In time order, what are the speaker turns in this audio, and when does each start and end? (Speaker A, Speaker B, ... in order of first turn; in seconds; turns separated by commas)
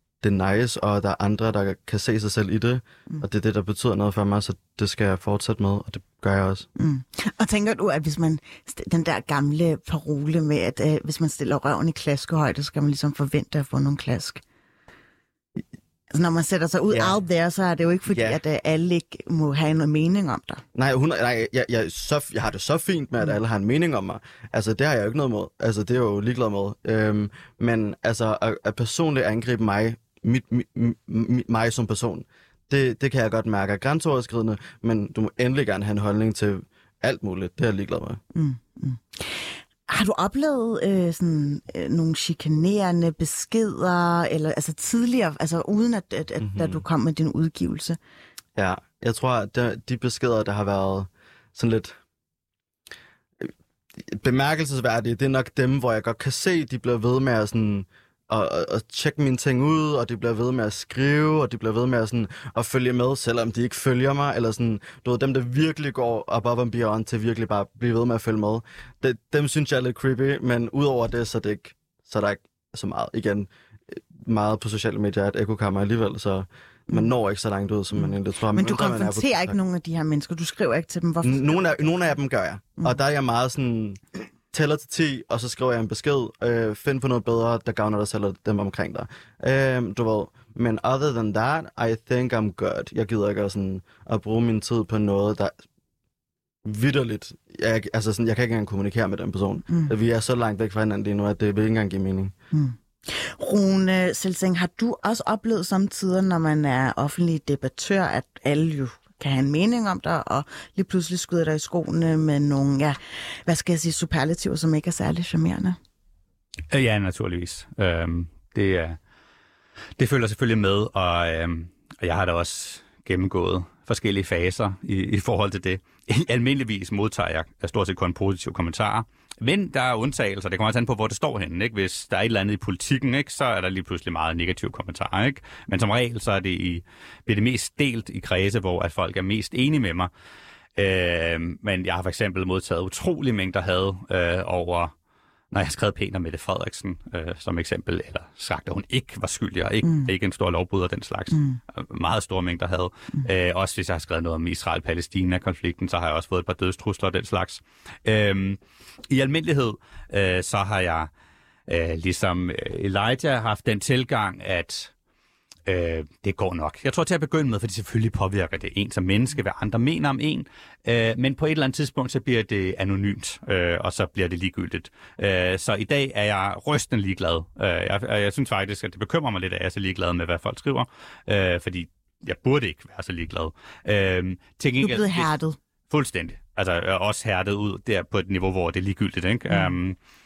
Speaker A: 0.2-6.7, Speaker B: 6.8-14.4, Speaker B: 16.1-20.6, Speaker A: 16.9-17.2, Speaker A: 18.1-18.4, Speaker A: 20.8-38.2, Speaker B: 38.4-48.0, Speaker A: 46.4-46.8, Speaker A: 48.6-52.0, Speaker A: 54.1-79.6, Speaker B: 78.0-82.1, Speaker A: 81.2-95.6, Speaker A: 96.7-102.3, Speaker B: 102.5-115.8, Speaker C: 116.7-119.0, Speaker C: 120.0-140.1, Speaker C: 140.8-144.9, Speaker C: 145.5-161.1, Speaker B: 149.8-150.1, Speaker B: 151.3-151.6, Speaker C: 161.7-164.9, Speaker C: 165.7-185.3, Speaker B: 184.8-185.6, Speaker C: 185.9-190.0, Speaker B: 189.5-189.8